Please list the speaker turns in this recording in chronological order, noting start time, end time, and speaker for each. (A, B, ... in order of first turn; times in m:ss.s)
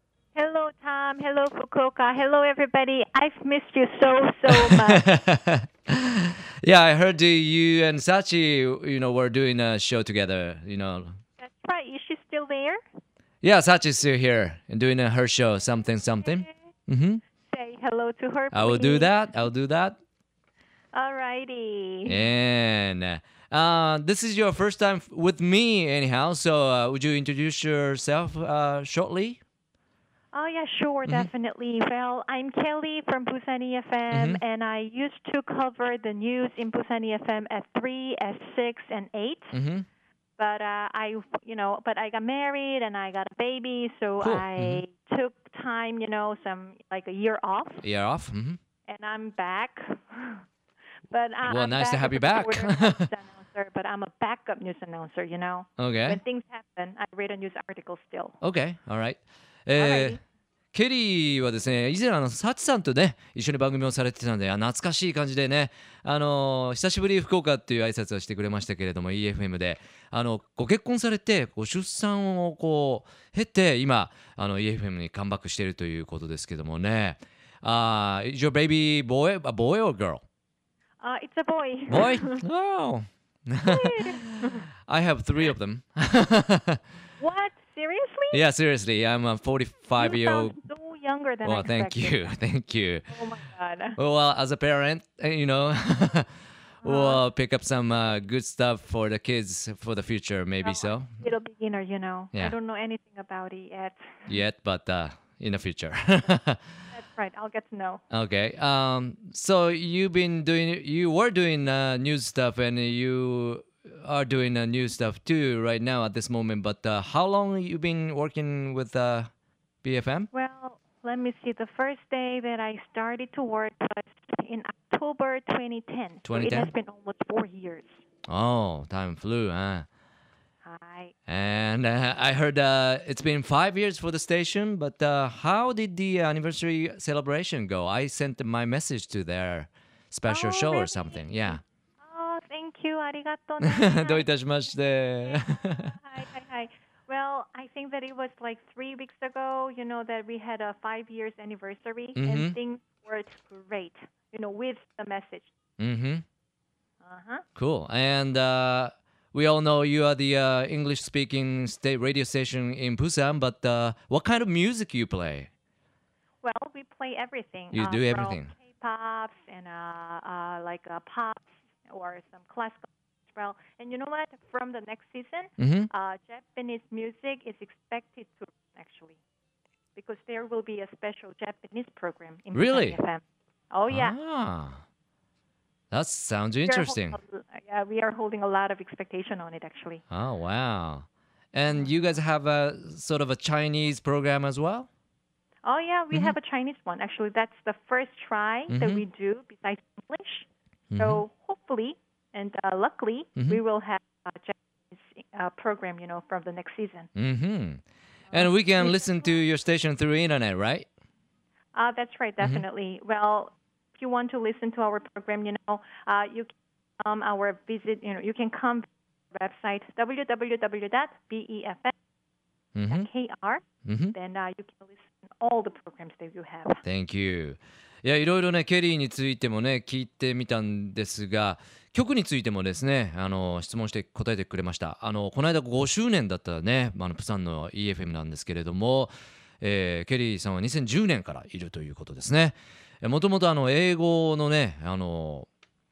0:00.4-0:05.0 A
0:04.5-0:11.2 B
0:11.4-0:12.8 A
0:13.4-0:17.2 B
0:16.2-0:16.5 A
0:17.5-0:19.2 A
0:18.5-0:20.0 B
0:20.9-0:22.2 A
0:22.0-0:29.4 B
0:30.3-0:39.5 A
0:34.1-0:34.4 B
0:39.5-0:39.9 B
0:40.4-0:47.8 A
0:44.2-0:44.8 B
0:47.8-0:48.6 B
0:48.9-0:50.4 A
0:51.1-0:58.4 A
0:51.5-0:53.1 B
0:55.8-0:56.2 B
0:58.4-1:00.2 B
0:59.8-1:00.2 A
1:00.7-1:20.2 B
1:21.0-1:22.4 A
1:21.9-1:26.8 B
1:23.6-1:24.6 A
1:27.2-1:28.4 A
1:28.3-1:30.6 B
1:30.0-1:32.3 A
1:31.4-1:33.2 B
1:33.1-1:34.0 A
1:34.0-1:36.3 B
1:36.8-1:37.2 A
1:36.8-1:41.2 B
1:40.6-1:44.4 A
1:44.3-1:46.6 B
1:46.9-1:48.0 A
1:48.1-1:59.3 B
1:59.8-2:00.3 B
2:00.3-2:07.9 A
2:06.3-2:06.7 B
2:08.3-2:09.9 B
2:10.6-2:11.1 A
2:11.3-2:21.6 B
2:20.3-2:35.5 A
2:23.6-2:25.9 B
2:32.2-2:32.6 B
2:35.8-2:36.2 B
2:37.0-2:37.4 A
2:37.6-2:45.5 B
2:46.4-2:59.2 A
2:47.7-2:48.5 B
2:55.6-2:55.9 B
3:00.0-3:04.2 A
3:02.5-3:03.0 B
3:03.9-3:04.8 B
3:05.9-3:07.2 B
3:06.7-3:10.0 A
3:10.1-3:14.9 B
3:11.7-3:11.9 A
3:15.6-3:20.5 A
3:18.7-3:19.0 B
3:20.9-3:21.2 B
3:21.0-3:27.1 A
3:27.2-3:30.9 B
3:28.3-3:29.4 A
3:31.7-3:41.9 A
3:42.8-3:43.1 B
3:42.9-3:46.8 A
3:43.8-3:44.1 B
3:46.8-4:05.5 B